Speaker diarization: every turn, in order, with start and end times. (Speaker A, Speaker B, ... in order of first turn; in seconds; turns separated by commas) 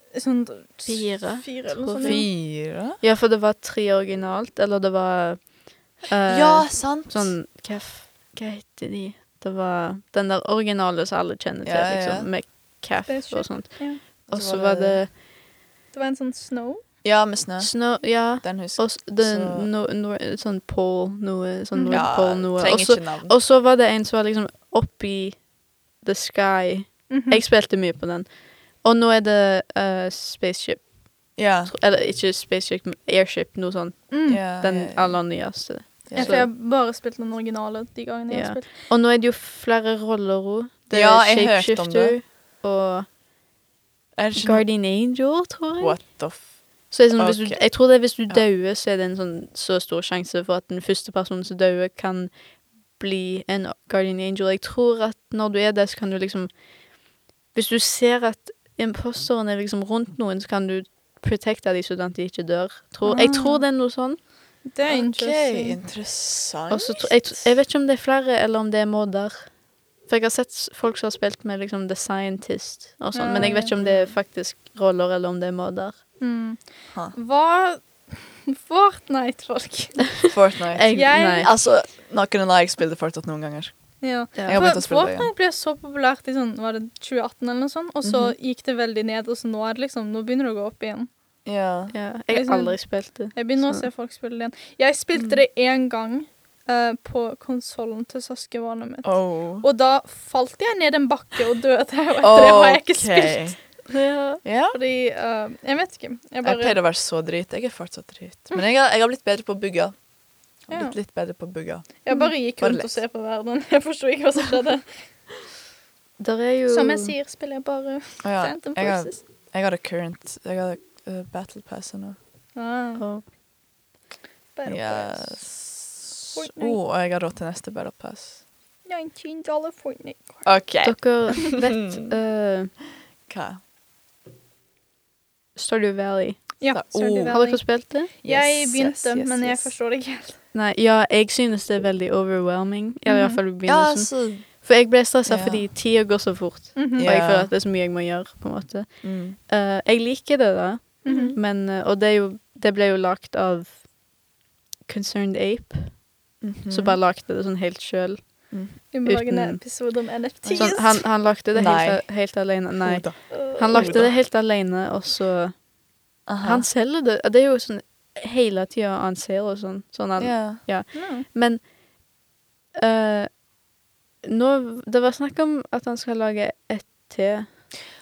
Speaker A: 0.1-2.3, Speaker B: 0.9-15.1, Speaker C: 2.0-3.0, Speaker C: 6.2-7.3, Speaker C: 11.6-12.3, Speaker A: 13.1-14.0, Speaker C: 14.3-15.0, Speaker A: 15.9-16.9, Speaker C: 17.0-19.7, Speaker B: 17.6-25.4, Speaker A: 21.7-22.0, Speaker C: 21.9-23.3, Speaker B: 26.0-30.9, Speaker A: 27.1-27.4, Speaker C: 31.4-31.7, Speaker B: 31.4-36.5, Speaker A: 34.1-34.4, Speaker C: 34.3-35.4, Speaker C: 36.1-36.4, Speaker A: 36.1-38.7, Speaker B: 38.3-43.1, Speaker C: 40.9-42.2, Speaker C: 44.1-44.7, Speaker B: 44.4-46.0, Speaker C: 45.8-46.6, Speaker B: 46.9-52.3, Speaker C: 47.1-47.6, Speaker B: 53.0-56.5, Speaker B: 57.5-64.2, Speaker A: 63.0-63.6, Speaker A: 64.6-65.8, Speaker C: 64.9-67.5, Speaker B: 66.7-69.5, Speaker B: 70.1-76.0, Speaker A: 73.1-73.7, Speaker C: 73.3-74.1, Speaker A: 76.2-80.2, Speaker C: 80.3-85.3, Speaker B: 80.7-81.5, Speaker A: 80.9-81.5, Speaker A: 84.0-91.1, Speaker B: 84.4-84.6, Speaker C: 88.0-88.3, Speaker C: 91.4-91.9, Speaker B: 91.9-93.9, Speaker A: 92.3-103.5, Speaker C: 99.0-99.6, Speaker C: 102.2-103.6, Speaker B: 103.9-104.4, Speaker C: 104.4-104.8, Speaker A: 104.7-106.8, Speaker C: 106.4-110.0, Speaker C: 110.6-113.0, Speaker A: 110.7-111.0, Speaker A: 112.0-115.0, Speaker B: 116.2-117.1, Speaker A: 116.7-119.2, Speaker C: 118.2-122.2, Speaker A: 122.5-123.0, Speaker B: 123.0-123.2, Speaker A: 124.5-125.5, Speaker C: 124.7-128.4, Speaker A: 126.3-126.8, Speaker A: 128.8-130.5, Speaker C: 130.4-132.1, Speaker B: 130.8-132.7, Speaker C: 133.3-133.6, Speaker B: 135.6-136.6, Speaker A: 136.6-140.4, Speaker C: 136.7-137.4, Speaker B: 137.3-138.1, Speaker C: 138.2-139.7, Speaker B: 140.5-153.9, Speaker A: 143.1-143.4, Speaker C: 143.6-144.7, Speaker C: 145.2-145.7, Speaker A: 146.8-147.1, Speaker C: 147.0-147.5, Speaker C: 149.0-149.4, Speaker A: 151.0-151.4, Speaker B: 154.9-156.1, Speaker C: 156.4-157.0, Speaker B: 156.7-165.7, Speaker C: 158.5-158.8, Speaker A: 158.9-161.0, Speaker C: 160.4-160.9, Speaker C: 161.5-164.1, Speaker A: 163.3-164.0, Speaker C: 166.2-166.7, Speaker B: 166.4-171.6, Speaker C: 170.2-170.6, Speaker A: 170.9-171.2, Speaker B: 172.8-173.4, Speaker B: 174.2-177.7